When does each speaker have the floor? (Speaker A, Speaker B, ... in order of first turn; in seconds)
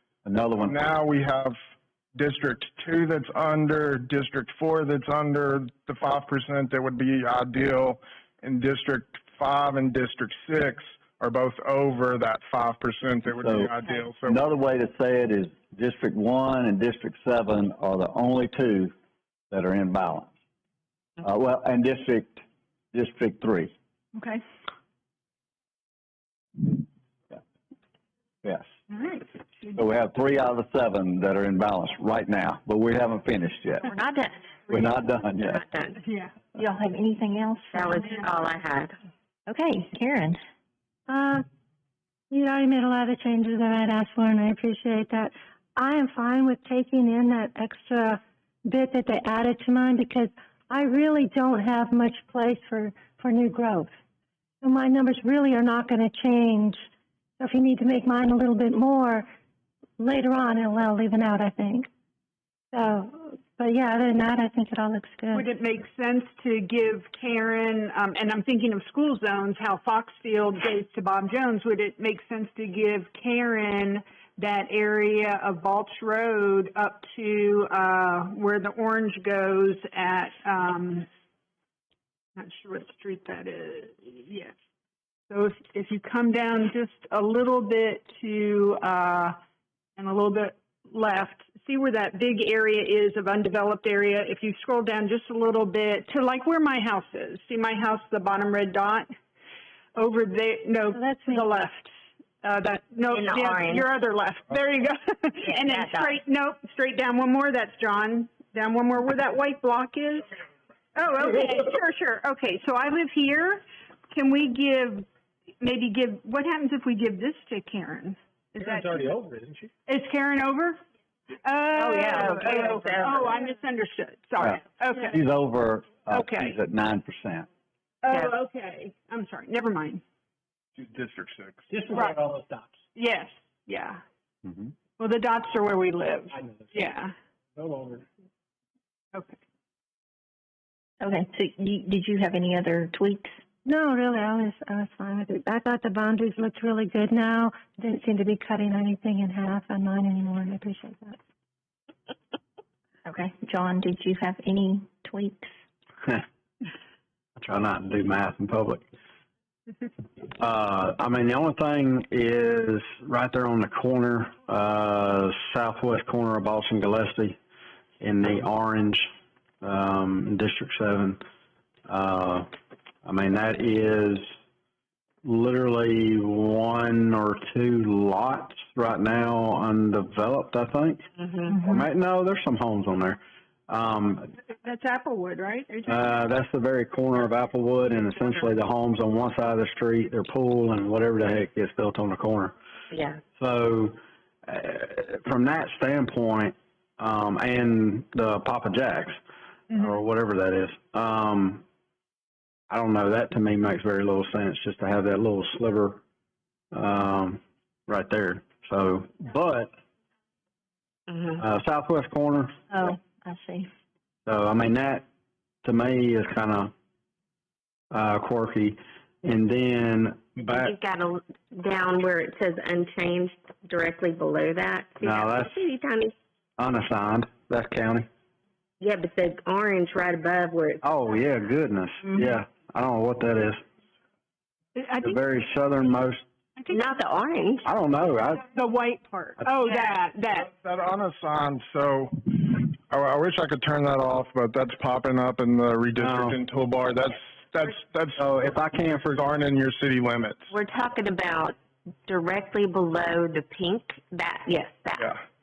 Speaker A: 0.2-0.8, 13.3-18.9, 19.5-20.3, 21.2-23.7, 29.7-33.9, 34.7-35.6, 124.4-127.5
Speaker B: 0.6-1.6, 2.2-14.4, 130.8-131.7, 240.4-248.2, 248.9-250.5
Speaker C: 28.9-29.2, 36.0-36.3, 65.3-81.1, 82.4-84.5, 85.3-89.4, 90.0-99.1, 100.0-110.3, 111.0-115.1, 115.6-119.1, 119.9-120.8, 121.4-125.2, 126.1-126.5, 128.0-130.0, 131.9-132.2, 132.9-134.0, 135.0-137.1, 184.6-186.2, 234.8-235.2, 236.6-236.8, 238.5-240.5
Speaker D: 33.9-34.5, 36.5-38.0, 39.5-40.4, 141.0-143.4, 153.1-155.5, 212.7-213.7
Speaker E: 35.4-36.0, 37.7-39.0, 103.1-103.9, 105.4-106.1, 121.7-123.3, 192.9-193.2, 211.1-211.4, 220.4-226.2, 228.8-230.8, 236.7-237.7, 250.5-255.1
Speaker F: 41.1-41.4, 42.3-53.9, 54.6-56.8, 57.4-59.3, 60.0-61.9, 62.7-65.5, 100.9-101.5, 143.7-151.2
Speaker G: 118.6-119.7, 131.7-132.8, 136.3-136.9, 137.6-138.1
Speaker H: 157.4-158.8, 160.3-167.4, 168.0-169.1, 169.6-171.2, 171.9-172.5, 173.1-174.2, 175.2-184.3, 185.8-192.5, 193.4-199.2, 199.7-201.6, 202.7-206.0, 206.7-209.7, 211.4-212.6, 214.3-215.1, 215.6-216.7, 217.9-220.7, 225.0-225.6, 226.6-228.1, 230.8-233.6, 235.0-236.2, 237.6-238.5, 246.0-246.4, 248.2-249.2